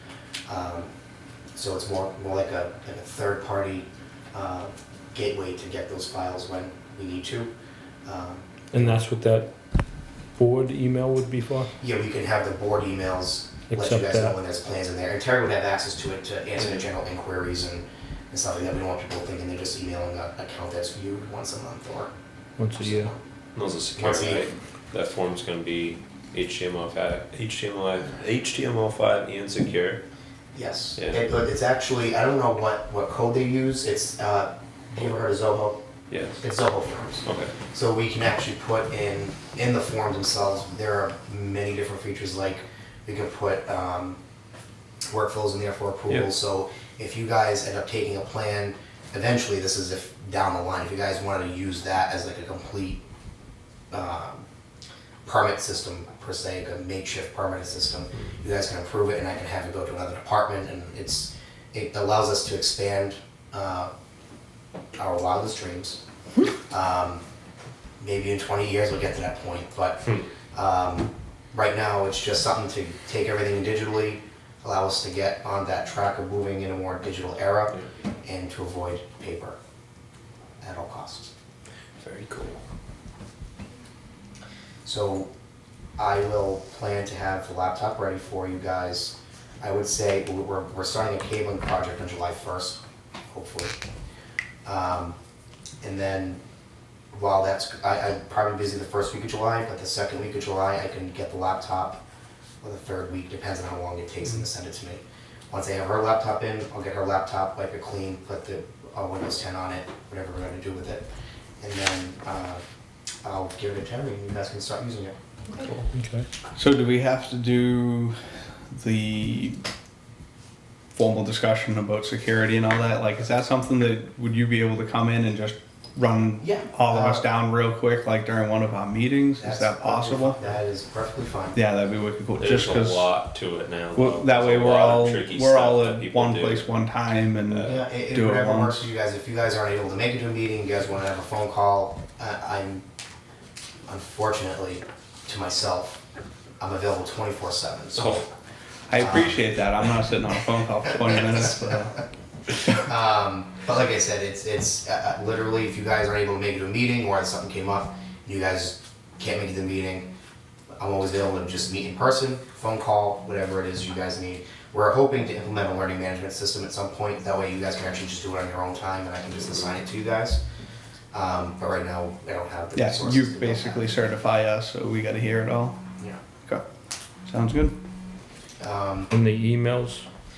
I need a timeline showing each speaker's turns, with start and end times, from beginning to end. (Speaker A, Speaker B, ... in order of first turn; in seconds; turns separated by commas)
Speaker A: 0.5-0.9, Speaker A: 1.6-7.5, Speaker A: 8.1-8.9, Speaker B: 8.7-9.5, Speaker B: 10.4-11.7, Speaker A: 11.8-22.1, Speaker B: 13.7-14.4, Speaker B: 22.6-23.1, Speaker A: 22.7-23.2, Speaker C: 23.6-30.0, Speaker A: 24.0-24.5, Speaker A: 30.5-35.8, Speaker C: 31.0-31.2, Speaker C: 36.1-36.4, Speaker A: 36.4-44.2, Speaker C: 37.2-37.5, Speaker A: 45.1-53.0, Speaker A: 53.9-54.5, Speaker A: 55.2-63.9, Speaker A: 65.0-66.0, Speaker A: 66.7-67.2, Speaker A: 68.0-79.6, Speaker A: 80.6-81.3, Speaker C: 82.0-82.6, Speaker A: 84.8-85.3, Speaker A: 86.0-93.8, Speaker A: 94.7-95.2, Speaker A: 95.8-96.4, Speaker A: 97.1-102.0, Speaker A: 102.6-111.0, Speaker A: 111.6-112.6, Speaker A: 113.2-115.2, Speaker B: 115.9-116.3, Speaker D: 116.5-119.6, Speaker D: 121.0-130.4, Speaker A: 126.4-127.2, Speaker A: 129.4-131.6, Speaker D: 131.5-133.1, Speaker C: 132.4-136.7, Speaker D: 133.9-138.9, Speaker C: 137.5-137.8, Speaker A: 137.6-142.8, Speaker A: 143.9-146.0, Speaker A: 146.6-148.3, Speaker C: 147.9-148.3, Speaker D: 148.9-152.0, Speaker A: 149.0-149.5, Speaker A: 151.1-151.8, Speaker A: 152.7-160.1, Speaker A: 160.8-170.4, Speaker A: 171.1-173.9, Speaker D: 172.8-175.8, Speaker D: 177.3-177.8, Speaker A: 178.6-179.1, Speaker B: 179.1-180.1